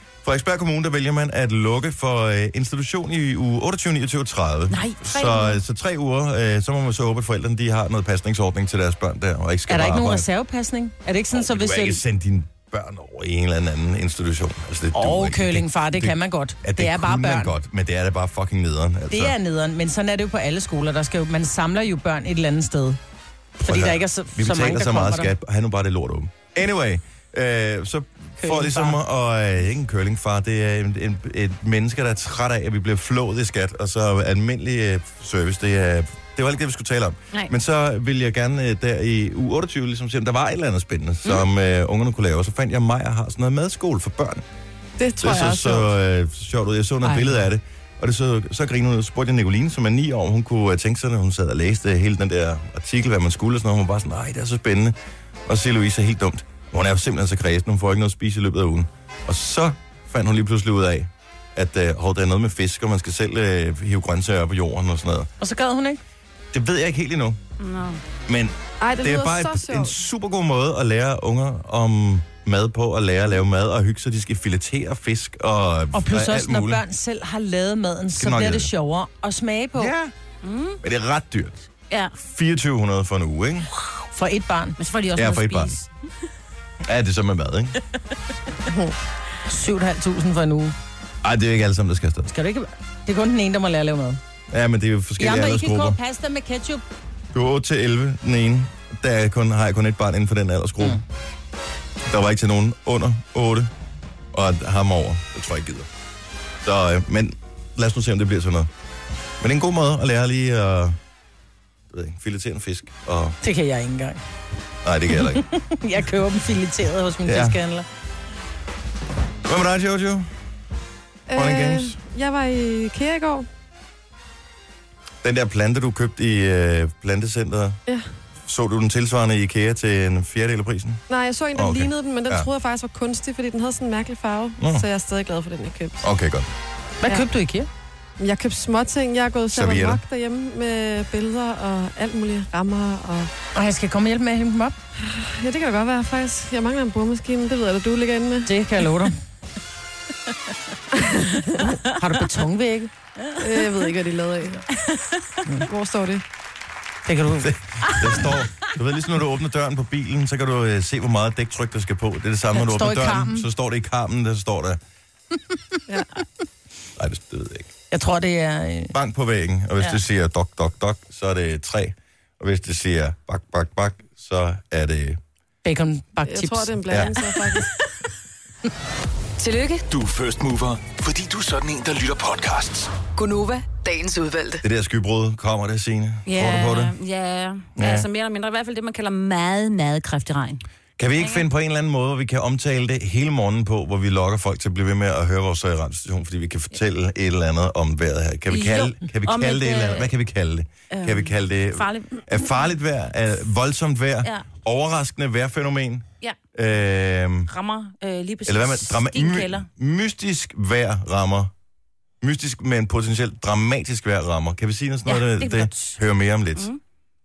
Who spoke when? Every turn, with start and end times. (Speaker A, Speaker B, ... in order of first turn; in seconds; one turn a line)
Speaker A: 0.2-10.3
Speaker B: 4.7-5.5
Speaker C: 4.8-5.3
Speaker C: 9.7-12.0
Speaker A: 11.3-19.4
Speaker C: 14.9-17.6
Speaker C: 19.1-23.0
Speaker C: 23.6-25.3
Speaker A: 23.6-44.4
Speaker C: 28.4-29.0
Speaker D: 45.0-45.9
Speaker A: 45.2-55.0
Speaker A: 55.5-65.3
Speaker C: 65.4-66.0
Speaker A: 66.5-67.4
Speaker B: 67.6-68.0
Speaker A: 68.3-76.8
Speaker D: 68.8-69.9
Speaker C: 75.9-79.9
Speaker A: 78.2-78.7
Speaker A: 79.8-80.1
Speaker B: 80.4-80.8
Speaker A: 80.8-81.7
Speaker B: 81.9-82.2
Speaker A: 82.2-83.7
Speaker C: 84.1-84.8
Speaker B: 84.8-85.9
Speaker A: 85.2-85.8
Speaker A: 86.8-87.8
Speaker C: 89.5-90.8
Speaker A: 91.2-92.3
Speaker C: 92.3-94.2
Speaker A: 94.5-96.0
Speaker C: 95.2-96.8
Speaker A: 97.3-101.0
Speaker A: 102.1-103.7
Speaker A: 104.3-105.9
Speaker A: 106.6-108.7
Speaker A: 109.4-111.0
Speaker A: 111.9-113.4
Speaker C: 113.4-114.2
Speaker A: 114.8-115.5
Speaker C: 115.1-117.9
Speaker A: 117.2-117.6
Speaker A: 119.4-120.3
Speaker D: 121.3-123.5
Speaker A: 121.3-122.0
Speaker A: 125.2-127.8
Speaker A: 128.4-131.0
Speaker D: 131.1-136.1
Speaker A: 131.6-132.5
Speaker A: 134.6-134.8
Speaker A: 136.0-136.5
Speaker C: 137.0-137.7
Speaker D: 138.2-143.3
Speaker A: 139.5-140.0
Speaker C: 143.6-144.8
Speaker D: 145.0-148.5
Speaker C: 148.5-149.2
Speaker D: 150.9-151.6
Speaker C: 151.6-152.9
Speaker B: 153.2-153.8
Speaker D: 153.4-154.7
Speaker B: 154.7-155.4
Speaker D: 155.7-156.2
Speaker C: 157.1-157.5
Speaker A: 157.4-164.8
Speaker C: 162.6-163.5
Speaker A: 167.0-167.7
Speaker C: 167.9-168.9
Speaker A: 168.9-175.2
Speaker C: 175.6-176.8
Speaker D: 176.2-177.8
Speaker B: 176.9-177.6
Speaker E: 179.4-179.9
Speaker F: 179.9-182.9
Speaker E: 183.2-184.6
Speaker A: 184.6-186.9
Speaker B: 186.3-190.6
Speaker A: 187.8-188.1
Speaker A: 191.0-207.5
Speaker B: 191.2-191.4
Speaker B: 198.5-200.1
Speaker B: 200.9-202.5
Speaker B: 207.5-209.7
Speaker A: 208.4-211.5
Speaker A: 212.2-216.7
Speaker B: 215.1-216.0